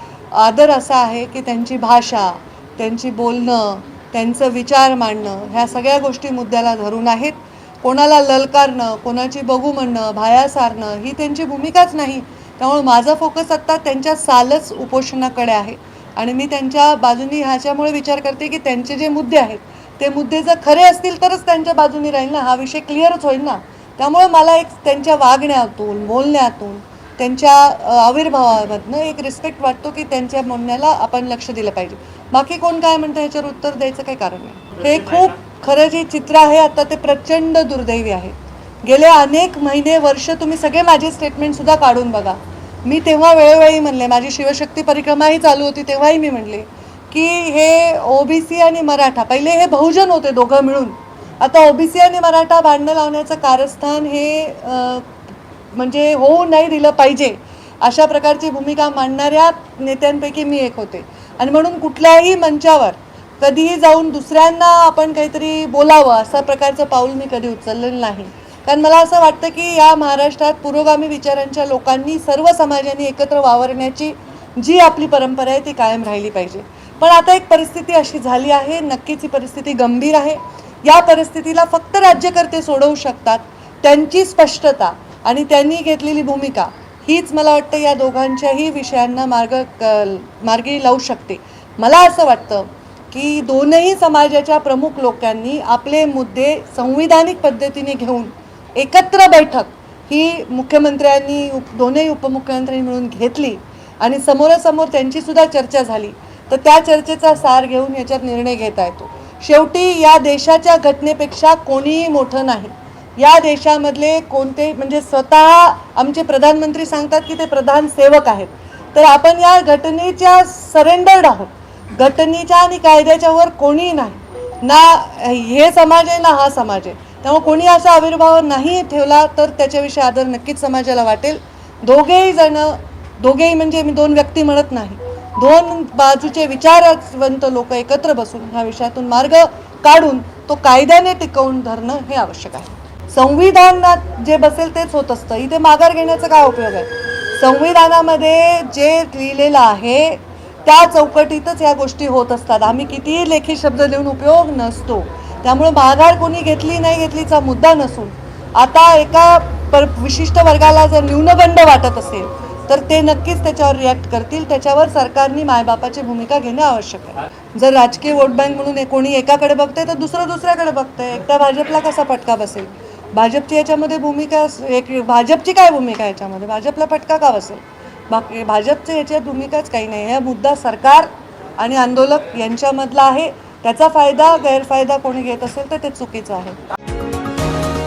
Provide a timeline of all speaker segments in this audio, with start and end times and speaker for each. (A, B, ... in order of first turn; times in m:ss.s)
0:00.3-0:55.1 A
0:55.8-3:06.6 A